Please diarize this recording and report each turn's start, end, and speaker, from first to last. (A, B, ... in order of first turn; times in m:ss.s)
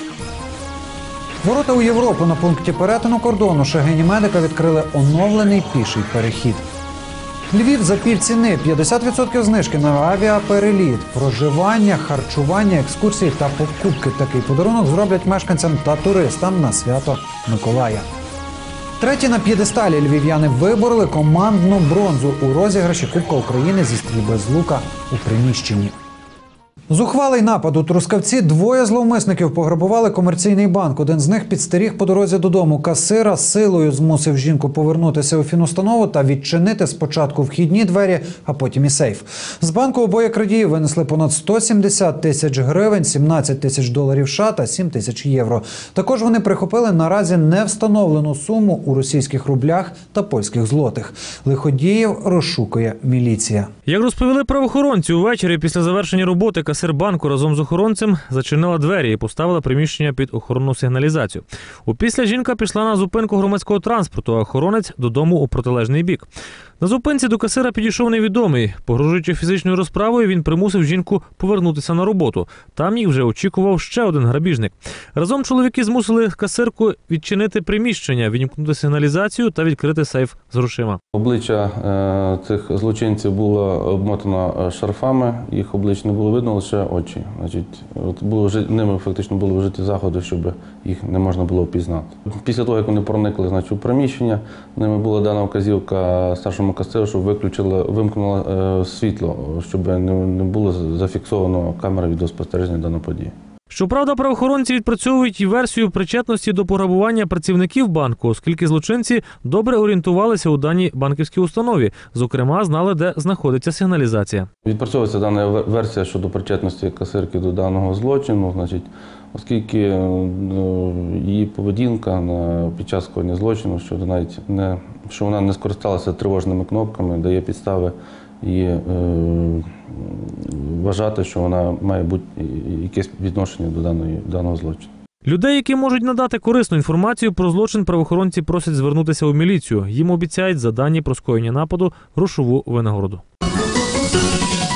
0:01.4-0:06.6 A
0:07.5-0:18.0 A
0:19.0-0:25.9 A
0:26.9-0:53.7 A
0:53.9-1:06.3 B
1:06.8-1:21.0 B
1:21.1-1:43.3 C
1:43.7-1:54.5 B
1:54.6-2:14.9 C
2:15.2-2:23.2 B